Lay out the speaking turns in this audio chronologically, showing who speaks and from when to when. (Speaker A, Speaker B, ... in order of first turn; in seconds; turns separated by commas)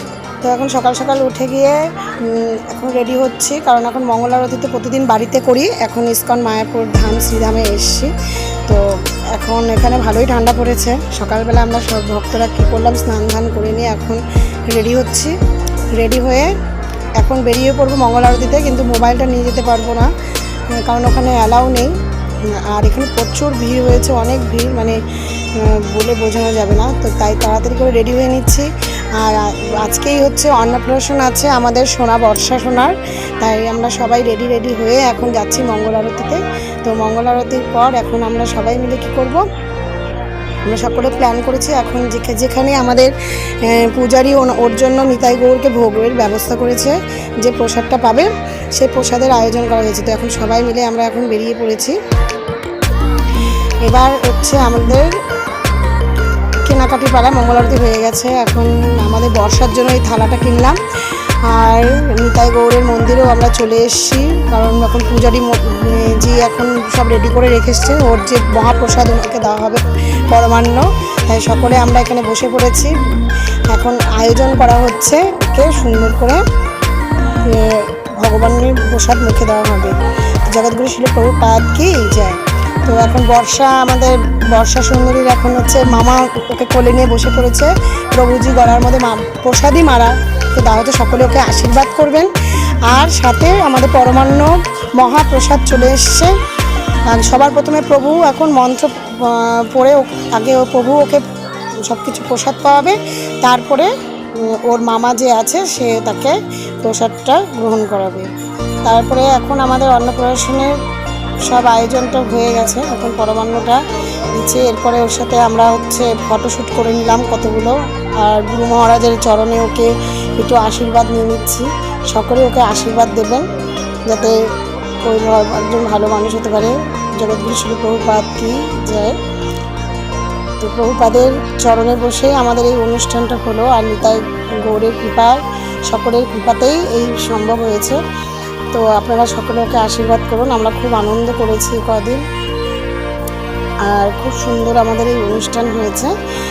Speaker A: 0.4-8.1, Speaker A: 8.7-15.4, Speaker A: 15.9-16.5, Speaker A: 17.2-39.5, Speaker A: 40.6-52.0, Speaker A: 53.8-55.1, Speaker A: 56.6-72.9, Speaker A: 73.7-76.4, Speaker A: 77.4-92.3, Speaker A: 92.8-96.4, Speaker A: 97.0-101.2, Speaker A: 101.8-108.3, Speaker A: 108.8-110.8, Speaker A: 111.4-113.8, Speaker A: 114.3-123.4, Speaker A: 124.1-124.4, Speaker A: 125.0-129.2, Speaker A: 130.6-138.0, Speaker A: 138.7-142.2, Speaker A: 143.8-146.1